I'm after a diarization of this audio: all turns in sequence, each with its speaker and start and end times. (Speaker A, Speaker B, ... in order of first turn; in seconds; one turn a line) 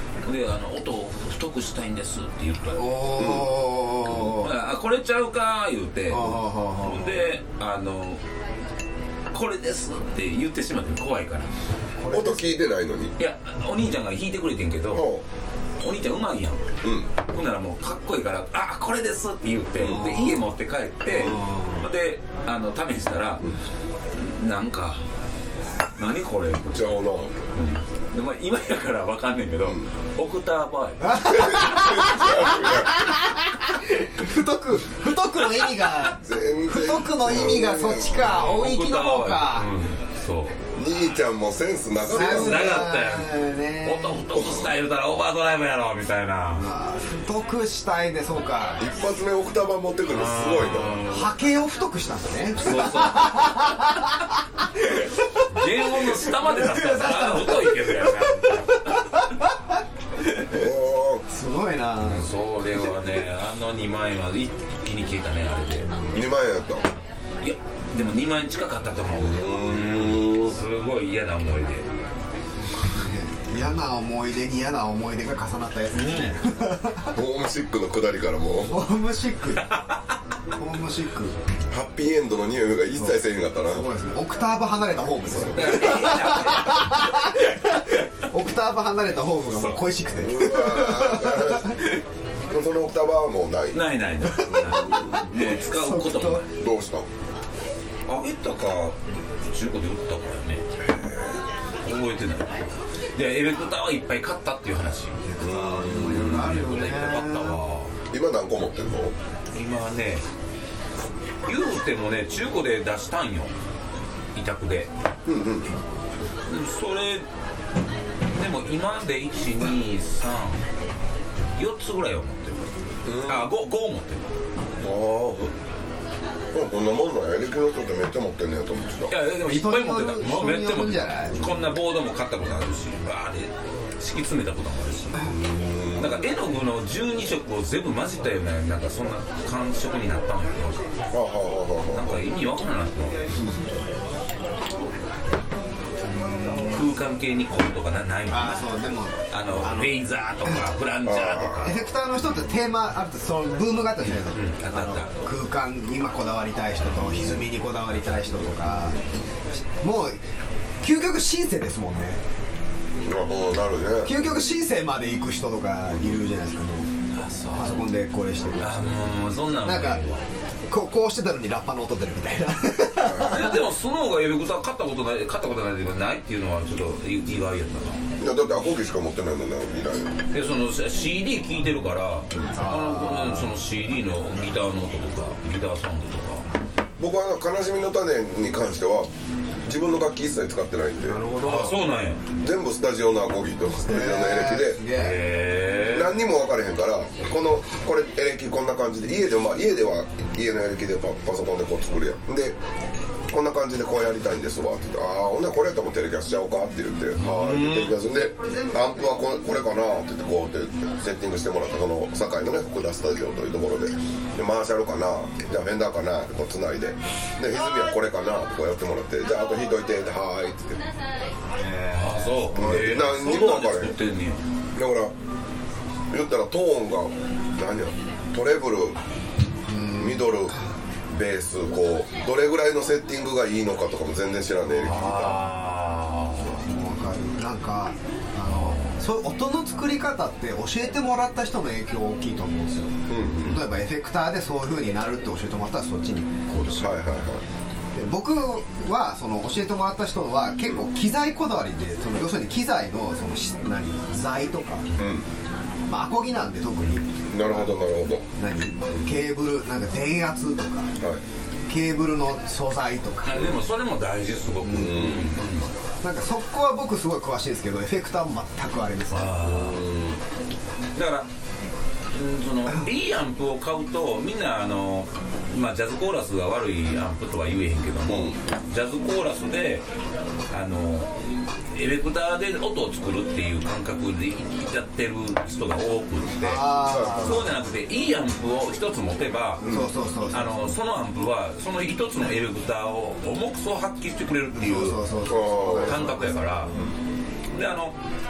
Speaker A: 0.2-3.2
Speaker B: 2.7-4.5
Speaker C: 3.1-3.6
Speaker A: 4.0-8.2
Speaker B: 6.1-7.2
Speaker A: 9.3-11.5
Speaker B: 12.0-12.6
Speaker C: 12.1-13.1
Speaker A: 13.2-15.1
Speaker C: 14.9-15.2
Speaker A: 15.8-16.6
Speaker C: 16.8-17.1
Speaker A: 17.3-23.4
Speaker B: 19.8-20.4
Speaker C: 21.1-21.4
Speaker B: 21.2-21.9
Speaker A: 24.1-25.0
Speaker A: 26.0-27.0
Speaker C: 26.7-27.4
Speaker A: 27.5-31.1
Speaker B: 31.0-39.7
Speaker C: 31.2-32.9
Speaker C: 36.2-38.5
Speaker A: 38.2-40.5
Speaker C: 40.8-42.9
Speaker B: 42.1-44.3
Speaker A: 42.1-46.7
Speaker C: 44.3-44.7
Speaker B: 46.5-48.9
Speaker C: 48.8-51.0
Speaker A: 50.1-51.3
Speaker B: 51.0-55.3
Speaker A: 52.5-53.5
Speaker A: 55.5-59.0
Speaker B: 55.8-59.5
Speaker C: 60.5-61.2
Speaker B: 61.3-62.3
Speaker A: 62.0-66.0
Speaker B: 65.9-66.2
Speaker C: 66.1-66.9
Speaker A: 67.4-71.9
Speaker C: 69.2-70.5
Speaker B: 72.7-77.2
Speaker A: 75.9-76.3
Speaker C: 77.1-78.7
Speaker B: 78.7-79.7
Speaker B: 80.5-81.3
Speaker C: 81.7-83.8
Speaker B: 82.9-92.0
Speaker A: 85.5-87.0
Speaker A: 89.5-89.8
Speaker C: 90.2-91.7
Speaker C: 92.5-93.8
Speaker A: 93.7-96.4
Speaker B: 94.2-96.4
Speaker C: 94.6-95.3
Speaker C: 96.6-97.0
Speaker A: 98.1-99.0
Speaker A: 99.5-100.6
Speaker C: 100.8-101.4
Speaker A: 101.8-105.2
Speaker B: 105.2-107.6
Speaker C: 105.4-106.6
Speaker A: 106.0-107.9
Speaker C: 108.1-109.1
Speaker A: 109.5-110.2
Speaker A: 111.5-113.5
Speaker A: 114.3-114.9
Speaker C: 115.2-115.7
Speaker A: 116.5-117.2
Speaker A: 118.3-120.6
Speaker A: 121.6-124.2
Speaker C: 123.0-123.5
Speaker C: 124.8-125.5
Speaker C: 126.5-129.1
Speaker A: 129.1-135.3
Speaker B: 129.4-131.5
Speaker C: 135.2-136.2
Speaker A: 135.9-140.9
Speaker C: 141.1-142.2
Speaker A: 141.9-143.6
Speaker B: 146.0-146.9
Speaker A: 146.7-148.8
Speaker B: 148.3-150.7
Speaker A: 149.3-151.8
Speaker C: 151.0-151.7
Speaker B: 151.6-159.0
Speaker A: 154.1-155.1
Speaker C: 156.9-157.4
Speaker B: 159.8-160.2
Speaker B: 160.8-162.2
Speaker C: 163.0-164.1
Speaker B: 164.0-166.9
Speaker A: 167.1-167.8
Speaker B: 167.5-170.0
Speaker A: 168.6-170.2
Speaker B: 170.7-173.6
Speaker C: 173.0-173.4
Speaker A: 173.2-178.0
Speaker C: 178.2-180.2
Speaker A: 180.3-186.4
Speaker B: 182.6-183.6
Speaker C: 187.0-189.1
Speaker C: 189.7-191.2
Speaker B: 191.0-191.8
Speaker A: 191.4-192.2
Speaker C: 192.4-194.8
Speaker B: 193.8-195.2
Speaker A: 194.9-196.2
Speaker C: 195.9-202.6
Speaker C: 203.3-220.8
Speaker A: 207.2-207.9
Speaker B: 208.1-209.2
Speaker B: 221.5-223.2
Speaker A: 221.9-224.4
Speaker C: 222.5-223.9
Speaker C: 224.7-225.1
Speaker C: 226.1-229.0
Speaker B: 229.7-230.5
Speaker C: 229.9-230.5
Speaker C: 231.1-235.4
Speaker A: 234.8-236.6
Speaker B: 236.6-247.0
Speaker A: 238.4-239.0
Speaker C: 243.1-243.6
Speaker C: 246.8-247.4
Speaker B: 247.9-254.9
Speaker C: 255.0-255.3
Speaker B: 255.9-257.8
Speaker C: 257.3-258.2
Speaker B: 258.4-260.9
Speaker B: 261.7-263.4
Speaker A: 263.2-265.7
Speaker C: 264.7-265.4
Speaker B: 266.0-269.4
Speaker A: 269.1-269.8
Speaker C: 269.4-270.2
Speaker A: 270.9-271.3
Speaker A: 272.1-279.8
Speaker C: 278.1-278.4
Speaker A: 280.5-281.1
Speaker A: 281.7-289.8
Speaker C: 286.2-287.4
Speaker B: 286.4-287.5
Speaker C: 289.6-289.9
Speaker B: 289.7-290.7
Speaker A: 290.3-295.0
Speaker B: 294.5-296.5
Speaker C: 295.3-296.0
Speaker A: 295.8-296.7
Speaker A: 297.5-297.9